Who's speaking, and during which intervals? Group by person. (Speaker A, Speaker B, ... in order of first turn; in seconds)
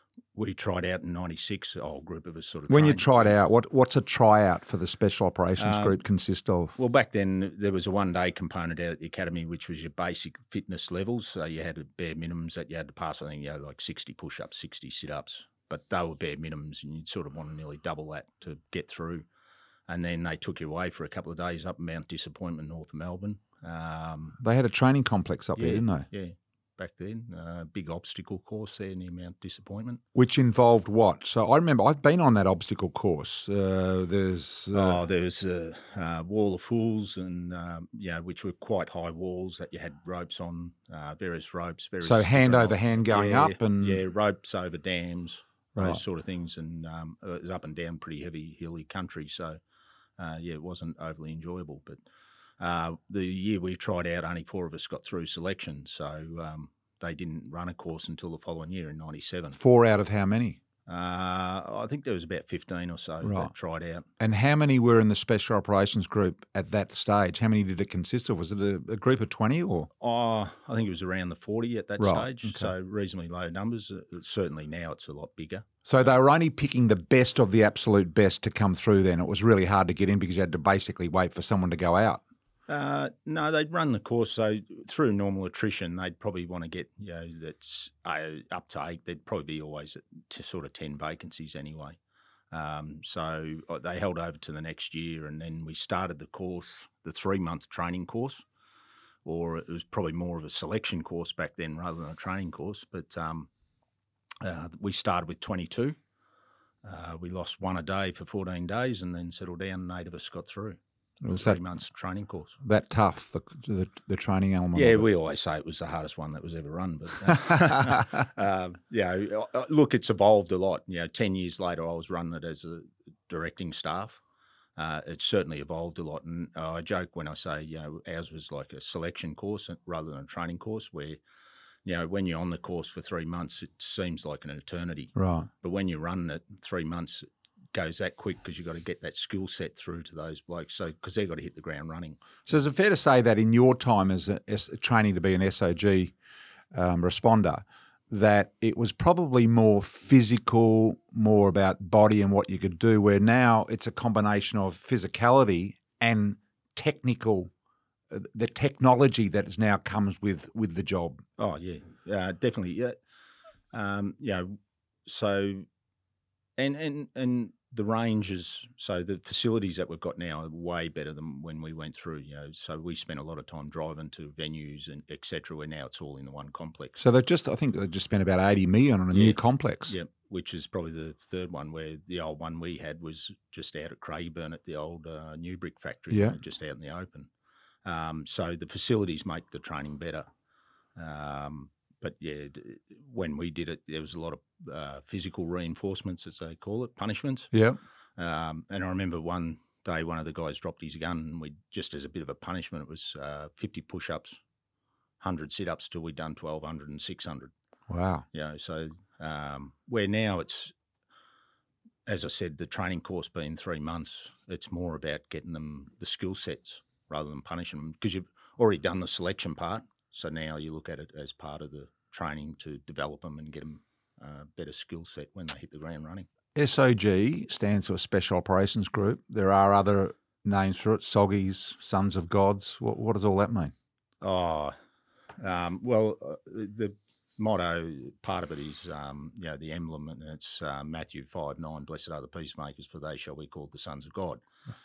Speaker A: 0.3-3.3, 5.6-6.0, 6.8-19.3, 19.9-24.4, 25.6-30.0, 34.7-49.6, 50.2-52.0, 52.6-59.6, 60.9-64.1, 70.0-75.7, 82.7-92.0, 92.5-98.5, 99.2-103.5, 104.4-106.0, 106.8-112.6, 114.8-124.2, 124.8-131.2, 131.8-142.2, 161.4-163.0, 163.7-165.7, 166.6-177.0, 179.1-187.3, 187.8-190.3, 191.0-197.5, 198.2-204.4, 205.2-207.5, 208.3-210.7, 212.1-226.3, 234.2-234.7, 235.4-244.4
Speaker B: 2.7-6.8, 24.4-26.1, 30.1-35.0, 42.0-44.0, 45.8-46.0, 59.6-60.6, 63.2-63.5, 64.2-69.9, 72.0-72.7, 75.9-82.2, 111.2-111.6, 112.6-115.1, 117.5-118.1, 135.2-135.5, 142.5-146.1, 146.7-157.5, 158.1-161.2, 177.0-179.9, 186.1-186.4, 197.5-197.8, 207.9-208.2, 226.6-233.7